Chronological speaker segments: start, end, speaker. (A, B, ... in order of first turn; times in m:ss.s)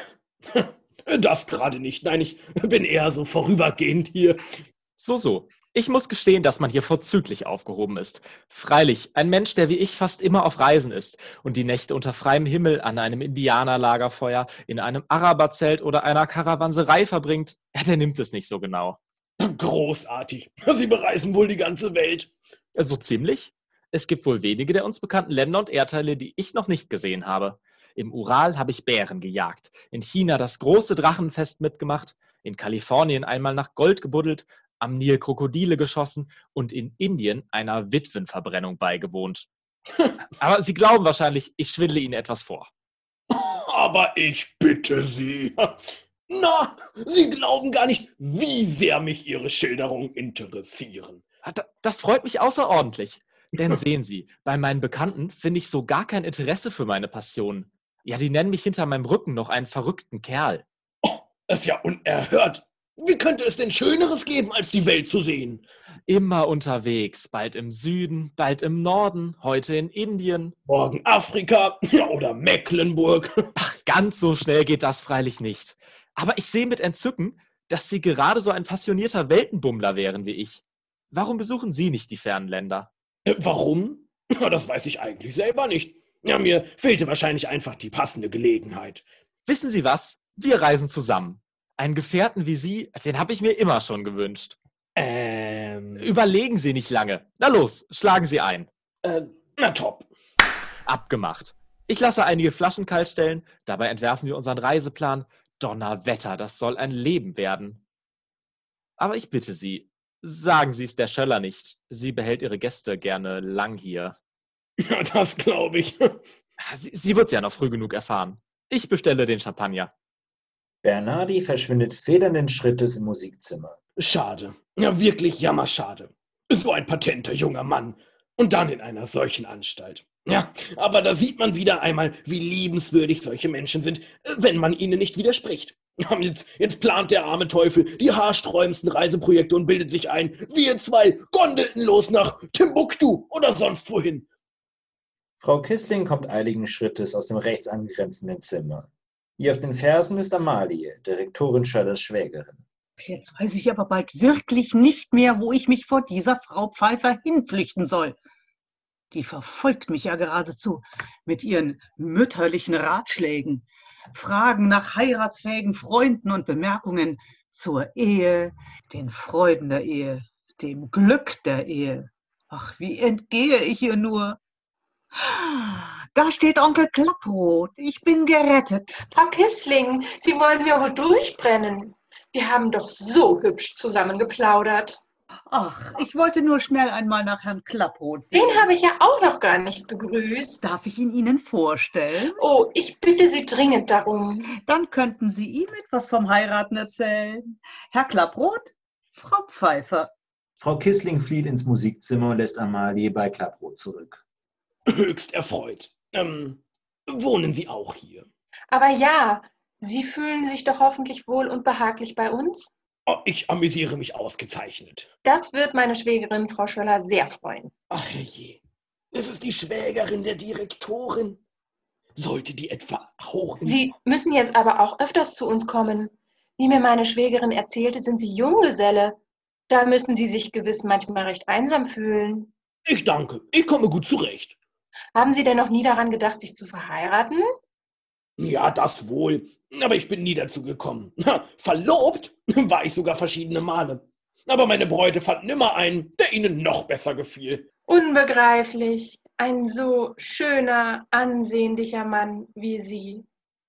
0:00.5-0:04.4 A
0:05.0-0:19.0 B
0:19.4-0:22.3 A
0:22.7-0:39.5 B
0:40.4-0:42.7 B
0:43.3-0:45.8 A
0:46.3-0:51.2 A
0:51.4-1:00.6 B
1:01.0-1:05.6 A
1:06.1-1:10.5 B
1:10.7-1:13.5 A
1:13.6-1:22.9 B
1:23.2-1:29.0 A
1:29.5-1:34.6 B
1:35.0-1:36.1 A
1:36.0-1:38.7 B
1:39.0-1:40.1 A
1:40.9-1:47.8 B
1:49.0-1:54.1 B
1:54.8-1:56.2 A
1:56.6-1:59.9 B
2:00.8-2:03.8 C
2:04.0-2:24.2 A
2:25.4-2:32.6 C
2:33.0-2:38.2 D
2:39.1-2:54.4 D
2:55.1-2:58.9 D
2:59.0-3:05.0 E
3:05.5-3:08.7 D
3:08.3-3:10.7 E
3:10.6-3:12.4 D
3:12.4-3:14.5 E
3:14.6-3:20.1 D
3:20.6-3:24.2 C
3:24.9-3:28.3 A
3:28.7-3:32.7 E
3:33.1-3:35.1 A
3:35.2-3:37.7 E
3:37.9-3:38.6 A
3:39.1-3:41.4 A
3:42.2-3:43.8 A
3:43.6-3:49.2 E
3:49.7-3:52.5 E
3:52.8-3:54.6 A
3:55.1-3:57.4 E
3:58.4-4:07.6 A
4:07.9-4:13.2 E